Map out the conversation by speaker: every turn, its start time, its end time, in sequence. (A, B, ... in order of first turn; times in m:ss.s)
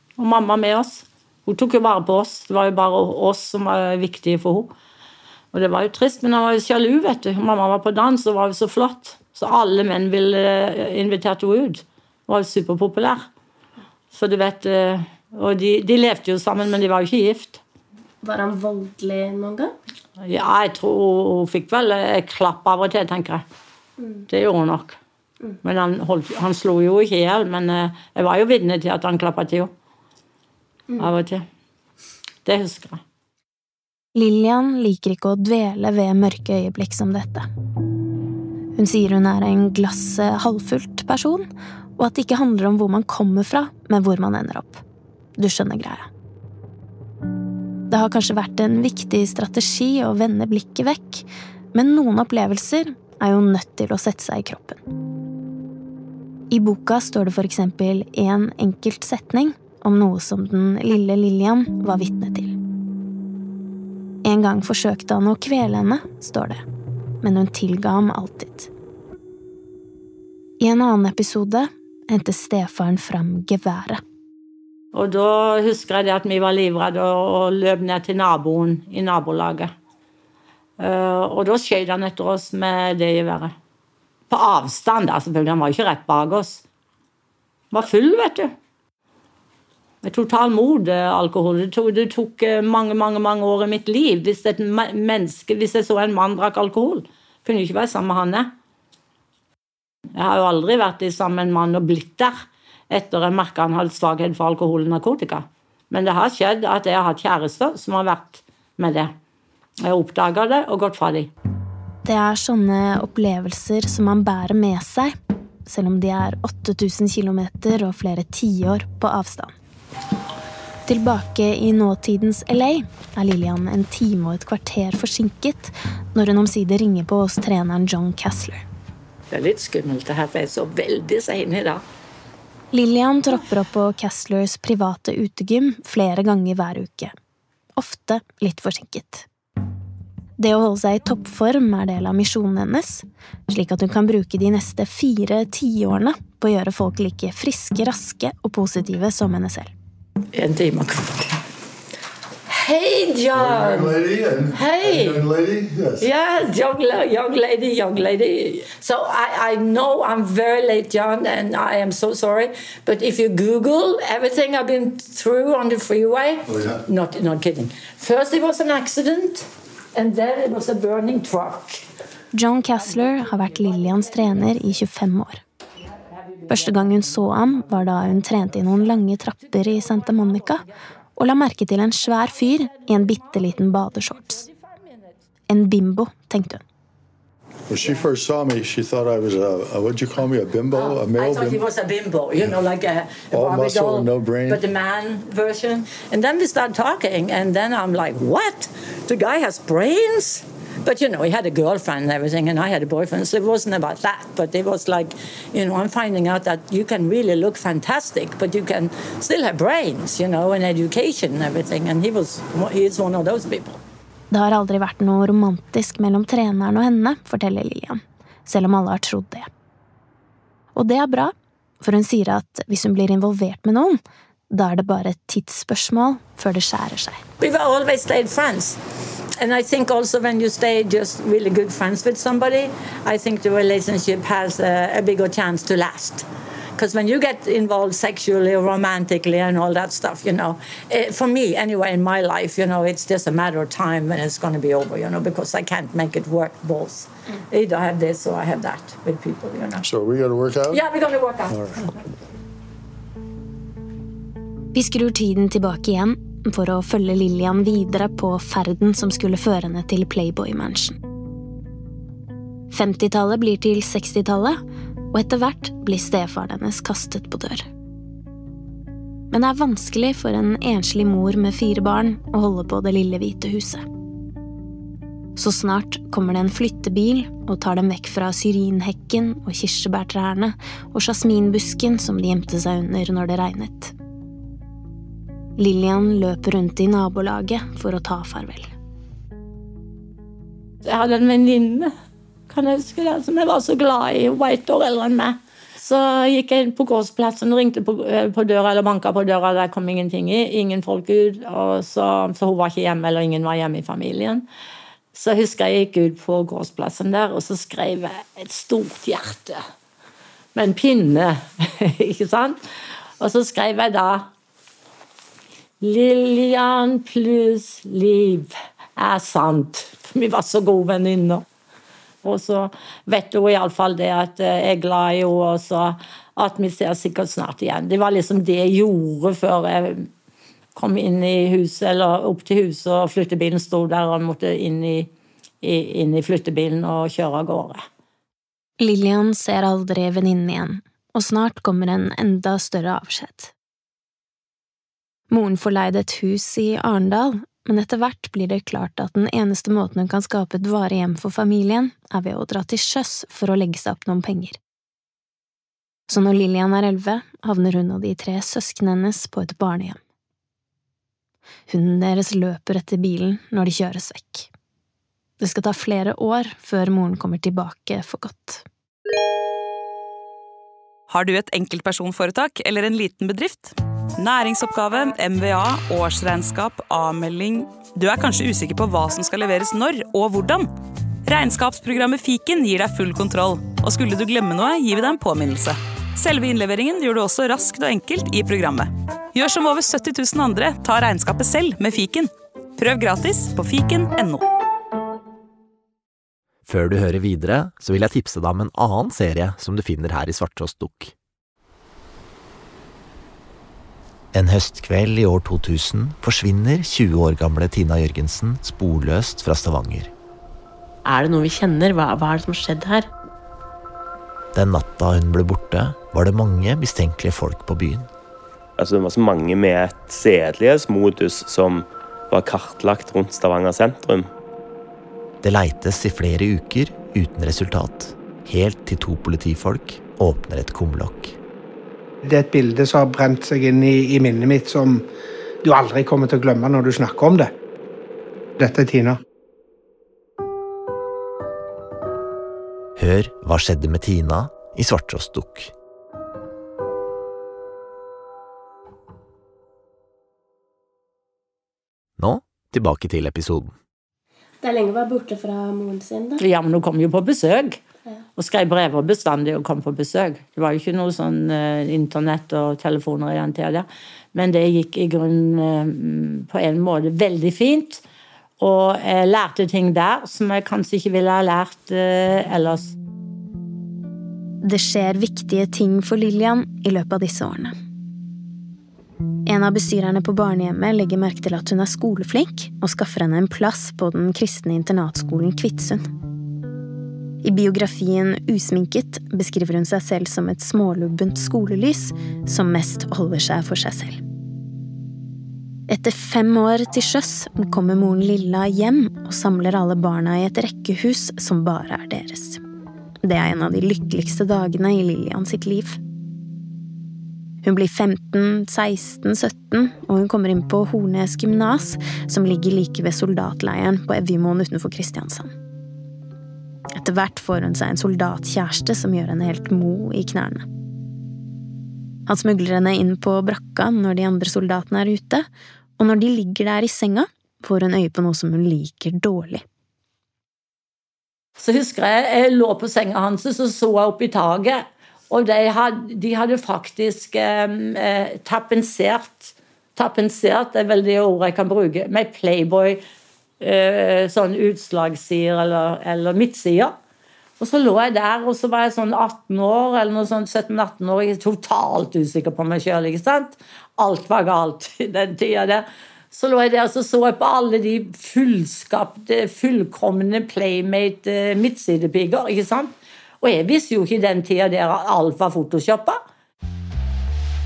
0:00.2-0:04.7 A
0:05.5-0:13.2 A
0:14.1-0:17.6 A
0:18.2-0:19.7 B
0:20.2-0:23.4 A
0:24.3-0:25.0 A
0:25.6-0:29.7 A
0:31.0-0:31.4 A
0:32.4-0:33.0 A
0:34.1-0:37.5 C
0:38.8-0:44.8 C
0:45.4-0:46.1 C
0:47.9-0:54.8 C
0:56.5-1:02.5 C
1:04.2-1:06.6 C
1:07.2-1:08.7 C
1:10.6-1:14.0 C
1:14.9-1:19.7 A
1:20.8-1:23.5 A
1:24.3-1:26.6 A
1:27.7-1:28.5 A
1:30.0-1:38.5 A
1:40.2-1:42.3 A
1:42.9-1:49.1 A
1:49.8-1:51.3 A
1:52.0-1:55.1 C
1:55.6-1:59.5 C
2:00.9-2:08.6 C
2:09.3-2:11.8 A
2:12.7-2:17.1 C
2:17.8-2:19.2 C
2:20.4-2:29.7 C
2:30.3-2:31.4 A
2:32.5-2:34.0 A
2:33.3-2:36.1 D
2:34.5-2:35.2 A
2:36.0-2:51.8 A
2:52.3-2:55.4 C
2:56.2-2:56.9 A
2:56.5-3:00.6 C
2:59.5-3:00.7 A
3:01.2-3:04.4 C
3:02.3-3:05.2 A
3:05.5-3:06.6 C
3:07.7-3:11.6 D
3:10.7-3:33.8 A
3:13.3-3:14.6 D
3:34.3-3:39.5 C
3:40.7-3:44.0 C
3:44.5-3:47.2 C
3:47.4-3:48.8 A
3:49.4-3:56.2 A
3:56.8-4:09.8 A
4:09.8-4:10.8 D
4:10.7-4:11.9 A
4:11.5-4:11.8 D
4:14.7-4:21.0 C
4:22.7-4:24.6 C
4:25.1-4:27.6 C
4:29.3-4:33.8 C
4:35.4-4:43.9 C
4:45.6-4:48.7 C
4:50.8-4:51.9 A
4:52.5-5:04.4 A
5:05.1-5:09.6 A
5:10.5-5:12.6 A
5:13.2-5:14.3 A
5:15.8-5:21.4 A
5:22.2-5:30.1 A
5:30.7-5:35.1 A
5:35.6-5:37.8 A
5:38.8-5:43.5 C
5:45.3-5:54.6 C
5:56.1-6:00.0 C
6:01.7-6:04.5 C
6:05.4-6:08.6 C
6:11.1-6:20.7 E
6:21.3-6:34.4 E
6:36.6-6:41.1 F
6:44.3-6:50.1 F
6:51.0-6:53.1 G
6:54.5-6:58.1 F
6:58.8-7:04.3 H
7:05.4-7:11.4 F
7:12.2-7:15.1 I
7:15.6-7:17.5 I
7:18.6-7:19.2 I
7:23.0-7:25.7 F
7:32.2-7:33.8 F
7:34.6-7:36.4 B
7:36.4-7:37.8 A
7:38.4-7:48.0 A
7:48.6-7:52.9 A
7:54.6-7:57.7 C
7:59.4-8:06.0 C
8:07.4-8:14.2 C
8:15.9-8:22.6 C
8:23.2-8:26.0 C
8:27.6-8:35.5 C
8:37.0-8:40.6 C
8:42.3-8:45.5 C
8:46.0-8:49.6 C
8:51.6-9:03.0 A
9:03.6-9:06.9 A
9:07.6-9:26.2 A